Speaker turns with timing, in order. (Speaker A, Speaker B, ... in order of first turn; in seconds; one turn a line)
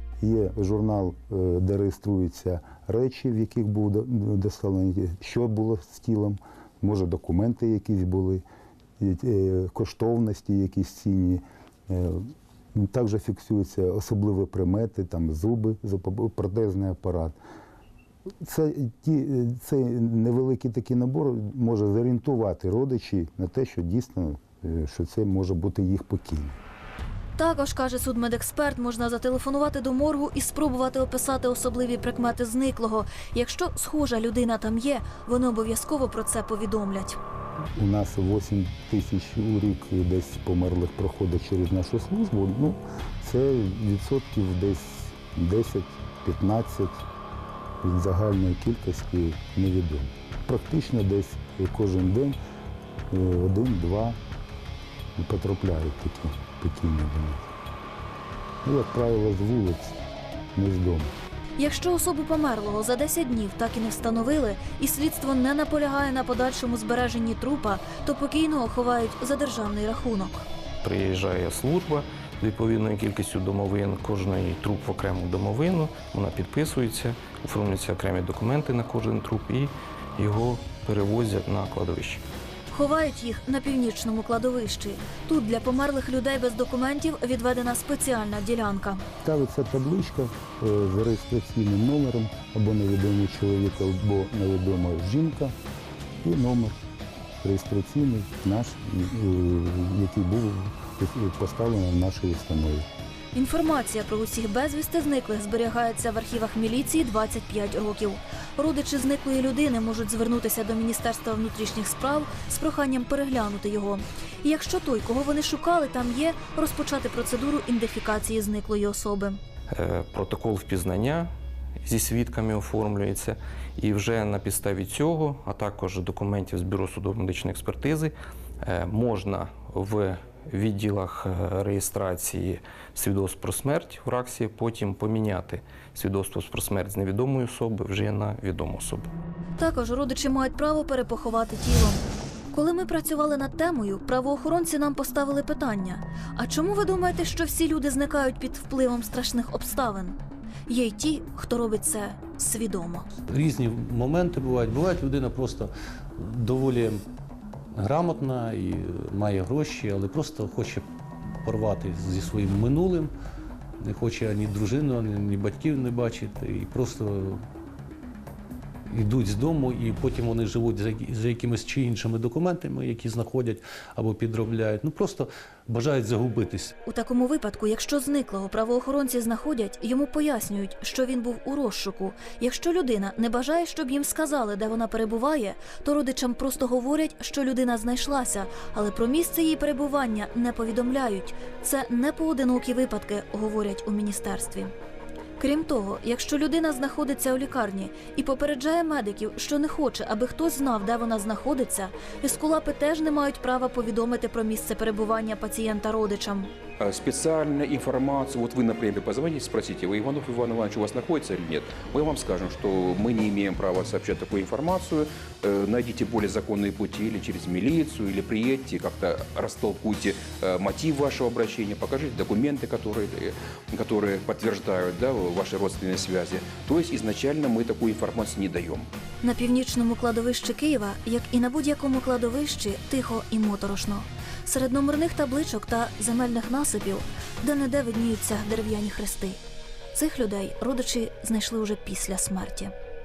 Speaker A: 0.2-8.4
Speaker A: 9.0-17.4
Speaker A: 18.4-26.5
Speaker B: 27.4-37.2
Speaker A: 37.8-47.0
Speaker A: 47.8-52.4
Speaker A: 53.1-54.2
Speaker A: 55.2-57.5
Speaker A: 58.6-60.0
Speaker A: 60.5-61.1
Speaker B: 61.6-70.5
Speaker C: 70.8-82.2
Speaker B: 82.7-89.0
Speaker A: 89.2-95.5
Speaker A: 96.2-96.8
Speaker A: 97.4-102.9
Speaker B: 103.3-119.4
Speaker C: 119.7-121.3
Speaker C: 121.8-139.1
Speaker B: 139.6-150.2
Speaker B: 150.7-153.1
Speaker D: 153.3-157.0
Speaker D: 157.7-160.9
Speaker D: 161.4-163.1
Speaker D: 163.8-167.4
Speaker D: 168.9-176.7
Speaker B: 176.9-194.7
Speaker B: 195.4-206.5
Speaker E: 206.8-228.9
Speaker B: 229.2-239.4
Speaker B: 239.9-242.7